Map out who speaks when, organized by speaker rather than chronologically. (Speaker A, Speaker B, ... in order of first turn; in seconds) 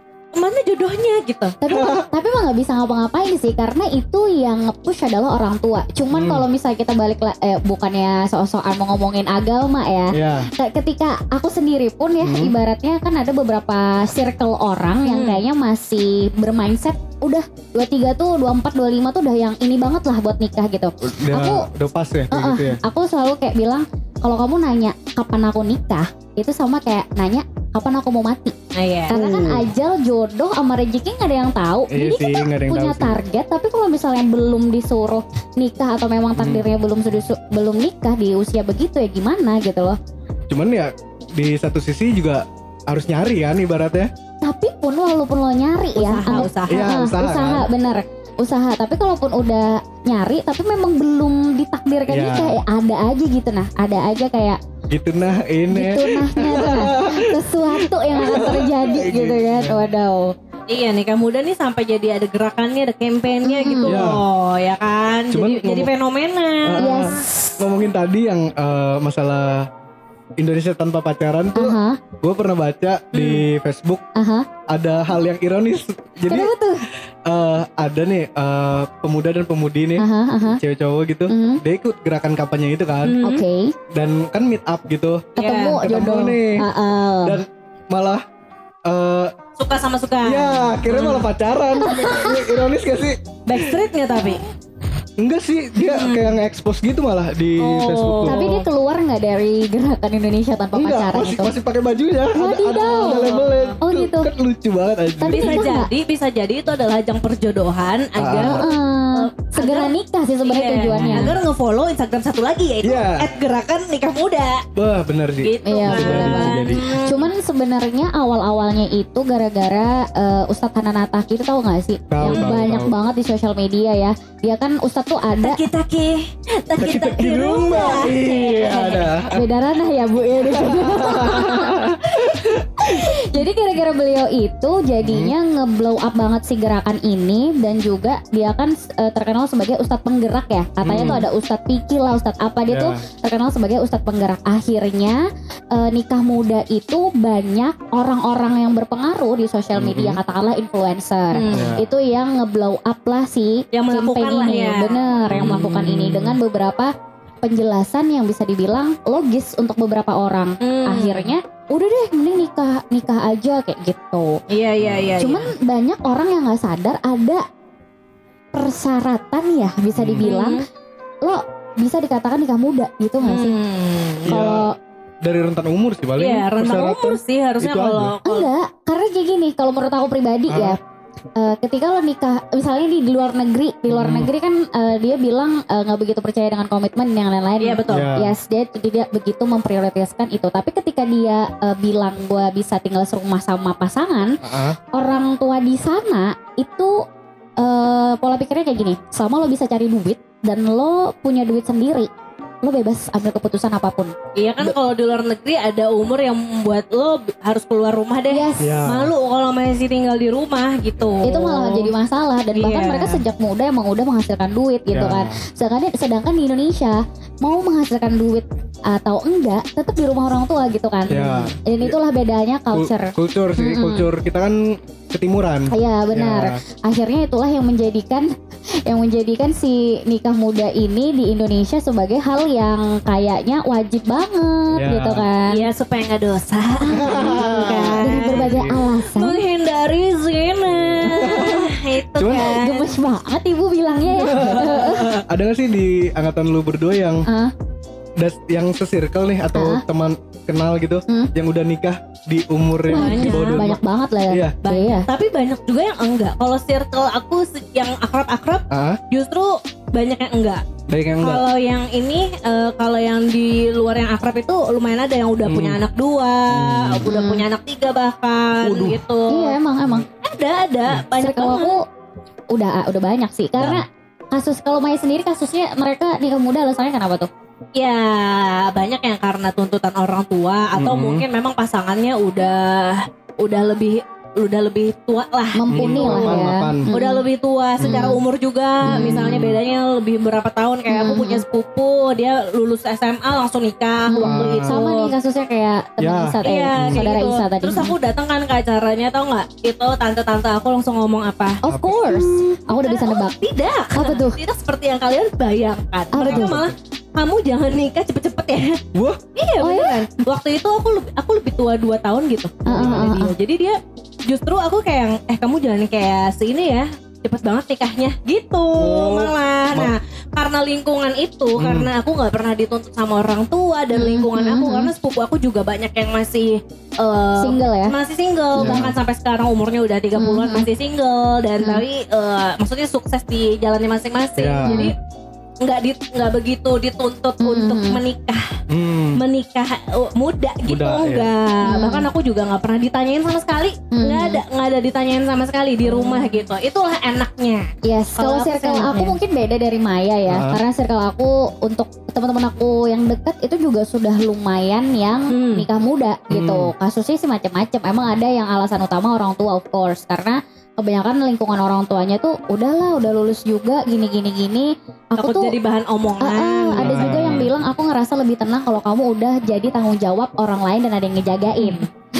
Speaker A: 0.3-1.6, 15.1-15.4, 28.8-29.2, 46.0-46.9, 60.7-67.0, 73.1-73.4, 83.0-83.4, 85.4-85.8, 89.6-91.3, 91.9-92.4, 93.5-94.4, 95.8-96.4, 97.6-98.7, 102.8-103.8, 105.3-109.9, 110.5-114.6, 115.4-117.2, 122.2-122.6, 125.4-129.1, 151.3-151.8, 153.7-155.7, 160.6-161.3, 164.5-165.5, 170.2-170.6, 173.2-174.4, 176.2-178.5, 187.6-188.1, 204.4-211.9, 212.5-213.2, 221.1-221.6, 235.5-242.9, 252.9-253.7, 254.7-260.6, 261.2-269.6, 270.1-271.8, 277.8-295.1, 296.4-308.8, 309.4-334.9, 335.6-338.4, 339.2-349.2, 355.3-355.7, 365.2-367.5, 371.6-371.9
Speaker B: 1.6-21.7, 22.3-28.6, 29.1-40.0, 44.4-54.6, 55.7-60.3, 63.4-64.1, 66.8-67.2, 71.6-72.0, 74.2-74.5, 76.3-76.9, 80.0-80.6, 81.3-81.6, 83.2-83.7, 85.4-87.4, 91.8-92.5, 98.2-101.5, 102.4-104.3, 105.2-105.9, 108.3-111.3, 115.7-125.6, 128.7-156.9, 157.4-164.4, 165.2-167.4, 168.6-170.6, 171.2-173.6, 174.3-174.8, 178.3-180.8, 181.4-194.3, 194.9-196.9, 197.6-202.1, 202.6-204.1, 208.3-208.8, 211.2-224.1, 225.7-228.3, 228.9-235.6, 236.8-239.4, 242.3-245.2, 247.3-247.5, 249.5-249.8, 252.9-255.1, 267.1-267.4, 269.3-270.1, 271.2-271.8, 272.5-277.3, 285.6-287.2, 287.8-288.2, 288.9-289.5, 290.9-291.4, 294.1-297.9, 301.6-303.4, 303.9-304.4, 306.1-306.6, 309.6-310.0, 312.7-313.3, 323.9-324.9, 327.4-327.9, 328.6-328.9, 330.2-330.7, 334.6-334.9, 337.4-338.0, 341.6-342.1, 343.9-344.4, 345.9-346.4, 347.8-365.6, 366.2-371.9
Speaker C: 1.7-2.1, 6.1-6.5, 10.1-10.5, 12.2-12.6, 21.0-22.8, 29.1-29.7, 31.9-33.2, 36.4-36.6, 40.5-44.1, 46.3-47.7, 52.1-52.6, 54.9-59.8, 63.9-64.2, 65.3-65.9, 66.6-69.7, 70.4-74.0, 74.7-76.5, 77.3-83.2, 83.9-86.6, 87.2-88.2, 88.9-89.3, 90.2-93.8, 95.2-98.5, 100.8-105.7, 108.2-108.7, 110.9-111.4, 112.8-113.3, 114.8-116.8, 122.1-122.9, 126.8-129.5, 130.5-133.1, 135.0-135.3, 140.8-141.3, 142.7-143.0, 149.8-150.2, 151.5-151.8, 155.3-156.3, 164.8-165.2, 169.9-170.3, 174.3-174.7, 175.2-178.2, 180.5-180.8, 183.9-184.3, 187.9-188.3, 194.4-194.8, 208.6-209.1, 214.9-215.4, 221.1-222.0, 222.7-226.6, 234.7-235.3, 236.9-238.8, 241.0-242.6, 244.1-247.2, 248.2-254.6, 258.7-259.0, 260.9-261.5, 265.4-265.8, 266.5-267.1, 268.6-269.0, 273.6-273.8, 280.8-281.2, 285.7-286.9, 287.8-288.2, 288.8-289.6, 294.2-294.8, 296.0-297.1, 301.7-302.0, 306.2-306.7, 308.9-309.2, 312.7-313.2, 318.8-319.9, 321.6-321.9, 328.6-329.0, 334.4-334.9, 338.7-339.2, 340.7-341.3, 350.3-350.6, 356.3-356.7, 366.8-367.5